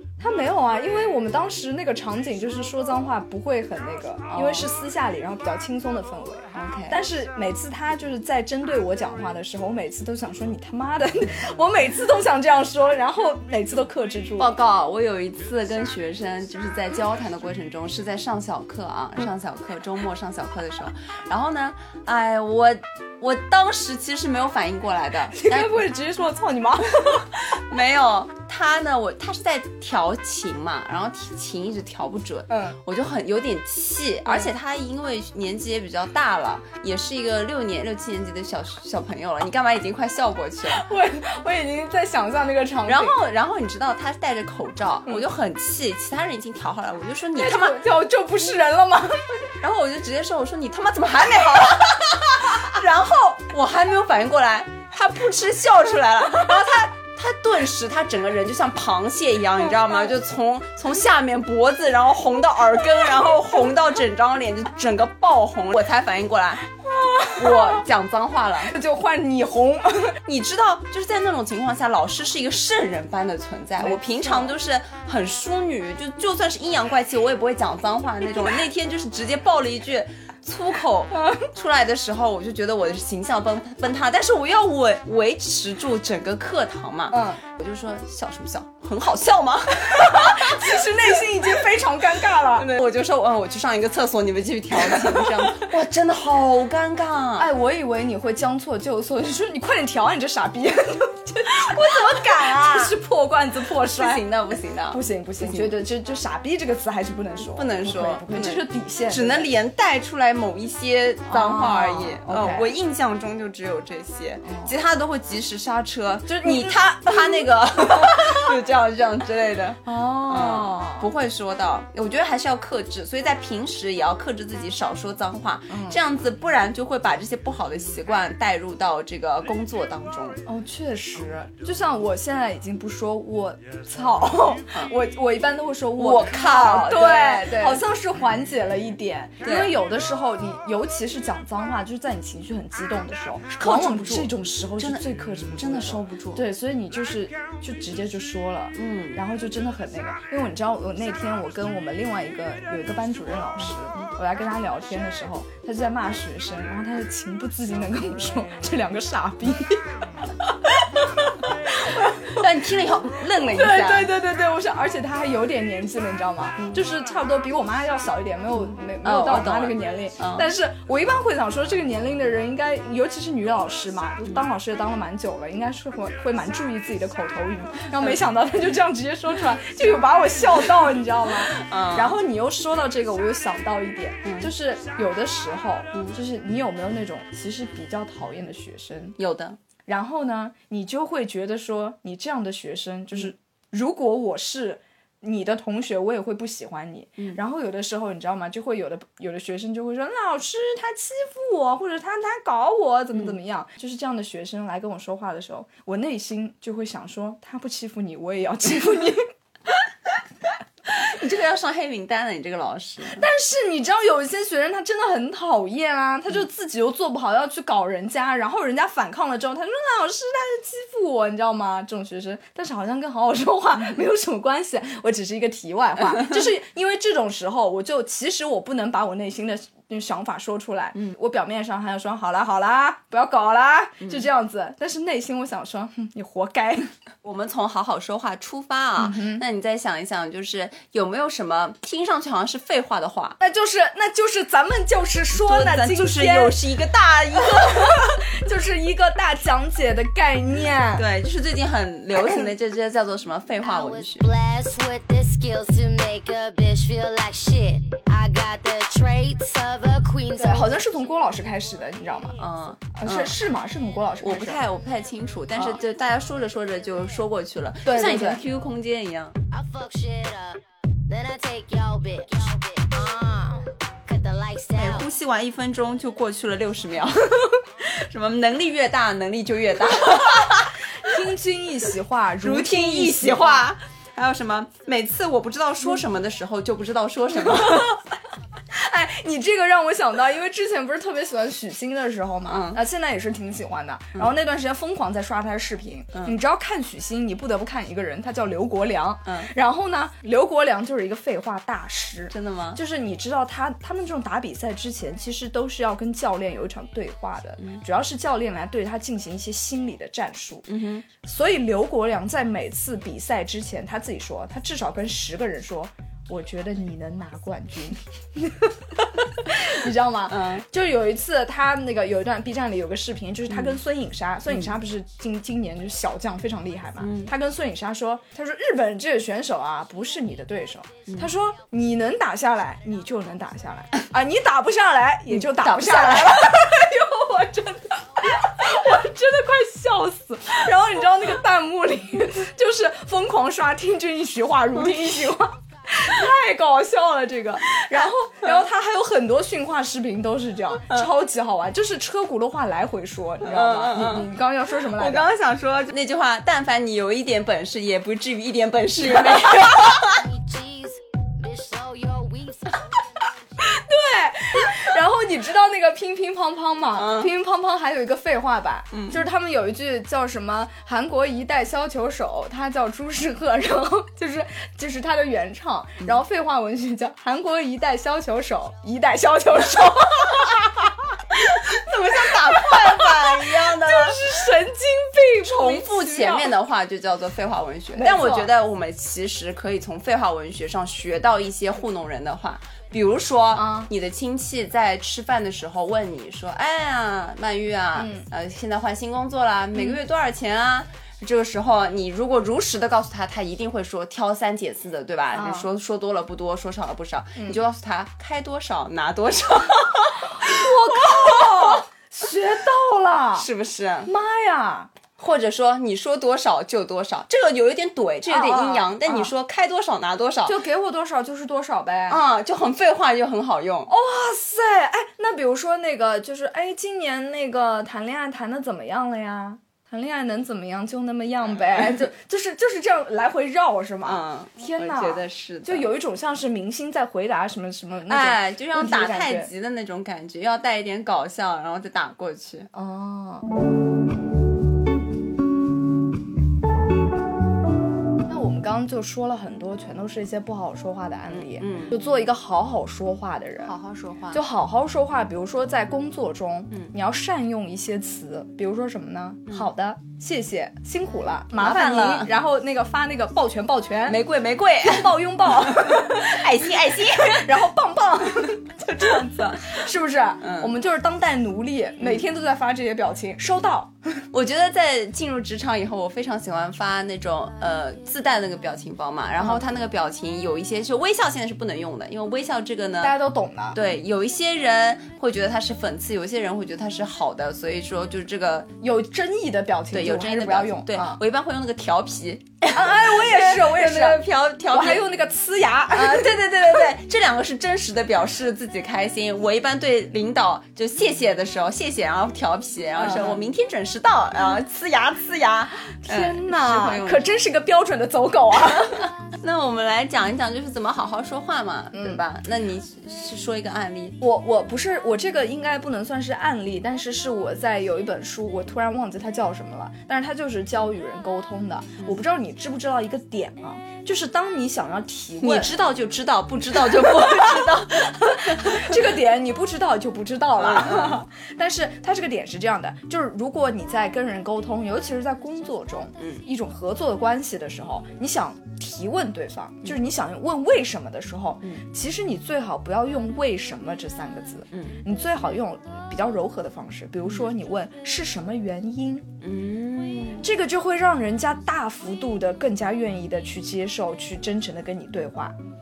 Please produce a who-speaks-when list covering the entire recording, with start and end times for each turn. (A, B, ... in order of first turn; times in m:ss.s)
0:00.2-0:14.6 A
0:04.3-0:04.7 B
0:06.5-0:07.0 B
0:14.4-0:25.9 B
0:25.3-0:27.3 A
0:27.1-0:40.9 B
0:32.5-0:32.8 A
0:34.3-0:34.5 A
0:40.7-0:43.2 A
0:42.9-0:47.8 B
0:47.4-0:49.4 A
0:49.6-1:06.7 B
1:06.8-1:07.8 A
1:07.3-1:08.8 B
1:08.7-1:10.2 A
1:10.2-1:30.9 B
1:13.8-1:14.6 A
1:21.1-1:21.4 A
1:27.1-1:27.4 A
1:29.8-1:32.8 A
1:32.6-1:37.5 B
1:34.7-1:35.7 A
1:37.4-1:49.5 A
1:41.7-1:43.0 B
1:43.9-1:45.7 B
1:47.5-2:10.4 B
1:51.3-1:52.7 A
1:54.4-1:54.8 A
1:56.3-1:58.5 A
1:59.8-2:01.1 A
2:05.7-2:06.0 A
2:10.5-2:42.4 A
2:16.0-2:17.8 B
2:19.4-2:19.8 B
2:23.6-2:26.4 B
2:28.8-2:29.2 B
2:42.2-2:44.1 B
2:43.3-3:09.2 A
2:49.0-2:50.5 B
3:01.5-3:02.2 B
3:04.2-3:04.5 B
3:09.2-3:09.6 B
3:09.9-3:29.3 A
3:30.9-3:33.2 B
3:33.2-3:56.9 A
3:57.2-4:03.4 B
3:59.0-3:59.4 A
4:03.4-4:06.6 A
4:05.3-4:08.0 B
4:07.4-4:11.0 A
4:11.0-4:14.3 B
4:12.2-4:12.5 A
4:13.6-4:20.8 C
4:20.4-4:22.4 A
4:22.4-4:23.4 B
4:22.9-4:24.6 A
4:24.2-4:29.4 B
4:25.5-4:25.8 A
4:27.8-4:28.4 A
4:29.5-4:35.1 C
4:34.8-4:40.8 B
4:40.0-4:43.7 A
4:42.4-4:48.0 B
4:47.4-4:48.0 A
4:48.7-5:55.3 A
4:52.5-4:52.8 B
5:02.3-5:02.8 B
5:10.7-5:11.1 B
5:20.3-5:20.7 B
5:23.5-5:23.8 B
5:27.0-5:27.3 B
5:35.3-5:36.5 B
5:47.8-5:48.6 B
5:53.4-5:54.3 B
5:55.0-6:00.2 B
5:59.0-5:59.7 A
6:00.0-6:02.9 C
6:03.6-6:21.2 A
6:07.0-6:07.3 B
6:08.9-6:09.2 B
6:21.5-6:24.2 B
6:21.9-6:26.6 A
6:25.4-6:51.8 B
6:28.0-6:28.5 A
6:33.5-6:33.9 A
6:38.0-6:38.3 A
6:45.3-6:45.7 A
6:50.4-6:53.5 A
6:53.4-6:54.1 B
6:54.0-6:54.9 A
6:55.2-7:00.6 B
6:58.3-6:59.3 A
7:00.5-7:02.2 A
7:02.1-7:03.9 B
7:03.9-7:19.5 A
7:14.0-7:15.9 B
7:18.1-7:22.7 B
7:22.7-7:23.5 A
7:28.3-7:33.8 A
7:31.3-7:32.0 B
7:33.6-7:34.4 B
7:34.3-7:44.3 A
7:41.6-7:42.3 B
7:44.1-7:47.5 B
7:44.8-7:54.1 A
7:48.8-7:49.8 B
7:50.4-7:50.7 B
7:54.3-8:03.2 B
7:59.4-7:59.6 A
8:03.0-8:03.8 A
8:03.7-8:08.7 B
8:08.8-8:11.2 A
8:09.9-8:15.1 B
8:12.7-8:16.9 A
8:15.9-8:27.3 B
8:23.0-8:23.5 A
8:26.0-8:29.1 A
8:29.1-8:34.2 B
8:31.9-8:32.2 A
8:34.2-8:45.8 A
8:45.4-8:49.0 B
8:46.7-9:09.3 A
8:50.6-8:51.2 B
8:56.2-8:56.4 B
9:04.7-9:05.0 B
9:09.4-9:10.5 B
9:10.4-9:15.6 A